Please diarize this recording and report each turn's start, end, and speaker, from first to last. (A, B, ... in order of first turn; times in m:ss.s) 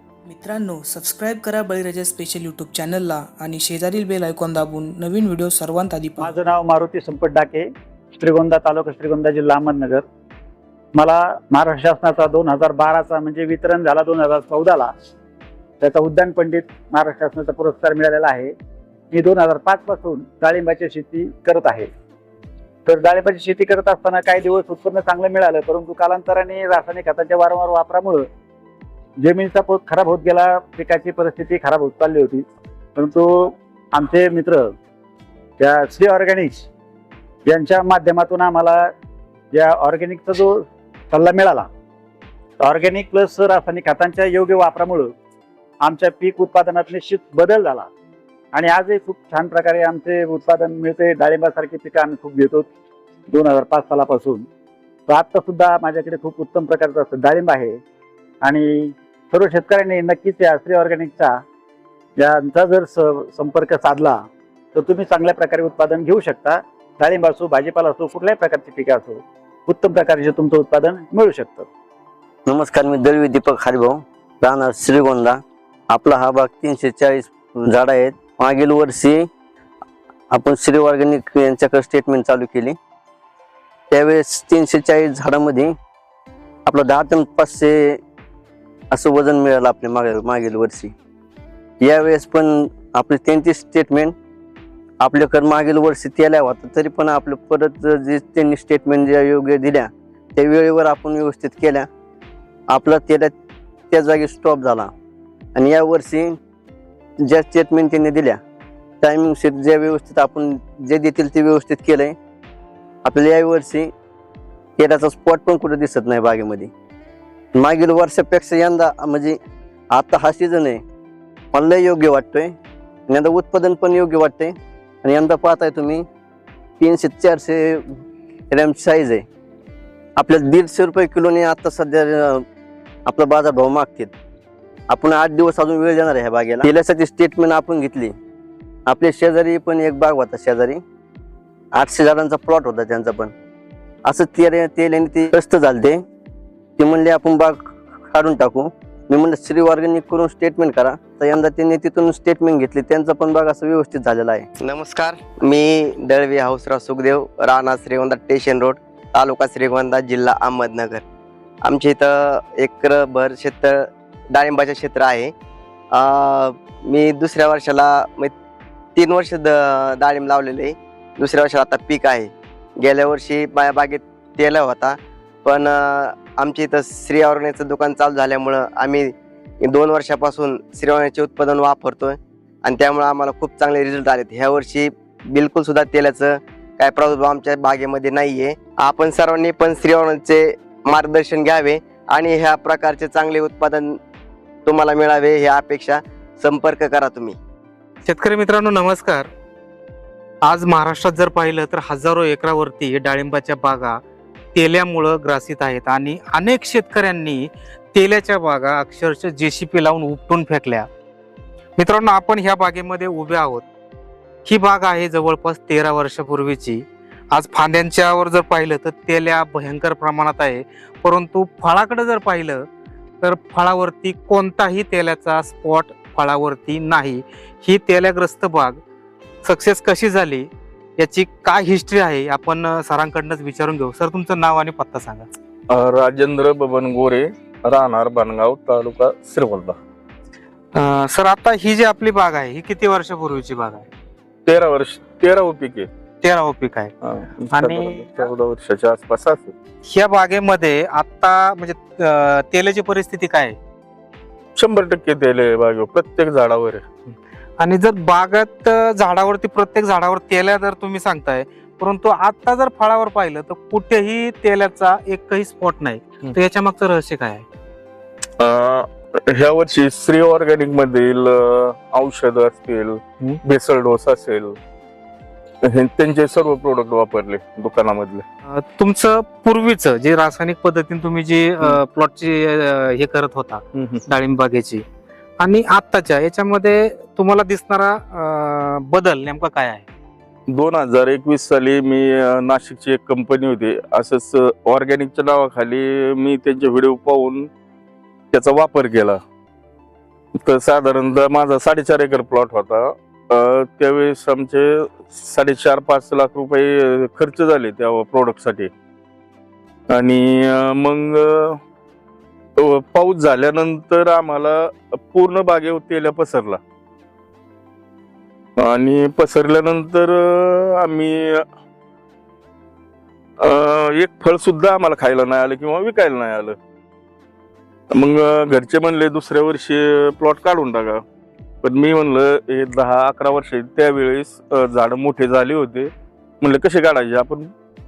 0:00.2-0:06.3 A
0:06.2-0:10.0 B
0:10.9-0:14.9 B
0:15.8-0:18.5 B
0:19.1-0:21.9 B
0:22.8-0:28.3 B
0:29.2-0:34.7 B
0:35.6-0:36.7 B
0:37.5-0:38.9 B
0:39.5-0:41.7 B
0:42.6-0:45.2 B
0:45.8-0:47.9 B
0:48.5-0:52.7 B
0:53.3-0:54.5 B
0:55.1-0:57.8 B
0:58.4-1:01.4 B
1:02.2-1:11.7 B
1:12.5-1:15.4 C
1:15.9-1:19.2 C
1:20.3-1:22.8 C
1:23.9-1:25.7 C
1:26.7-1:28.0 C
1:28.9-1:30.9 C
1:31.8-1:34.1 C
1:35.0-1:41.9 C
1:42.7-1:43.3 C
1:43.9-1:44.9 C
1:45.6-1:46.4 C
1:47.2-1:48.4 C
1:49.0-1:52.2 C
1:53.0-1:53.9 C
1:54.8-1:56.7 C
1:57.6-1:59.4 C
1:59.9-2:00.8 C
2:01.5-2:02.6 C
2:03.1-2:06.0 C
2:06.8-2:07.8 C
2:08.5-2:09.2 C
2:10.2-2:12.4 C
2:13.1-2:14.1 C
2:14.9-2:18.1 C
2:18.9-2:20.8 C
2:21.8-2:23.3 C
2:24.1-2:26.0 C
2:26.8-2:34.5 C
2:34.6-2:41.0 D
2:41.6-2:45.3 D
2:45.9-2:48.3 D
2:48.9-3:14.0 D
3:14.6-3:17.4 D
3:18.1-3:19.3 E
3:20.4-3:24.0 E
3:24.6-3:30.9 E
3:31.8-3:33.6 E
3:34.4-3:42.7 E
3:43.2-3:48.8 E
3:49.4-3:55.3 E
3:55.7-3:59.8 F
4:00.8-4:03.9 E
4:04.4-4:05.9 F
4:06.2-4:06.9 E
4:07.0-4:09.5 F
4:07.5-4:08.1 E
4:09.8-4:13.6 E
4:14.6-4:16.9 F
4:17.6-4:27.4 E
4:28.4-4:34.6 F
4:35.6-4:38.2 F
4:38.6-4:44.8 E
4:43.8-4:44.0 F
4:45.4-4:49.8 E
4:50.5-4:57.5 F
4:58.3-4:59.2 F
5:00.4-5:08.7 F
5:09.9-5:11.6 F
5:12.6-5:16.6 F
5:18.6-5:21.4 F
5:23.4-5:26.6 F
5:27.9-5:31.0 F
5:31.6-5:37.5 F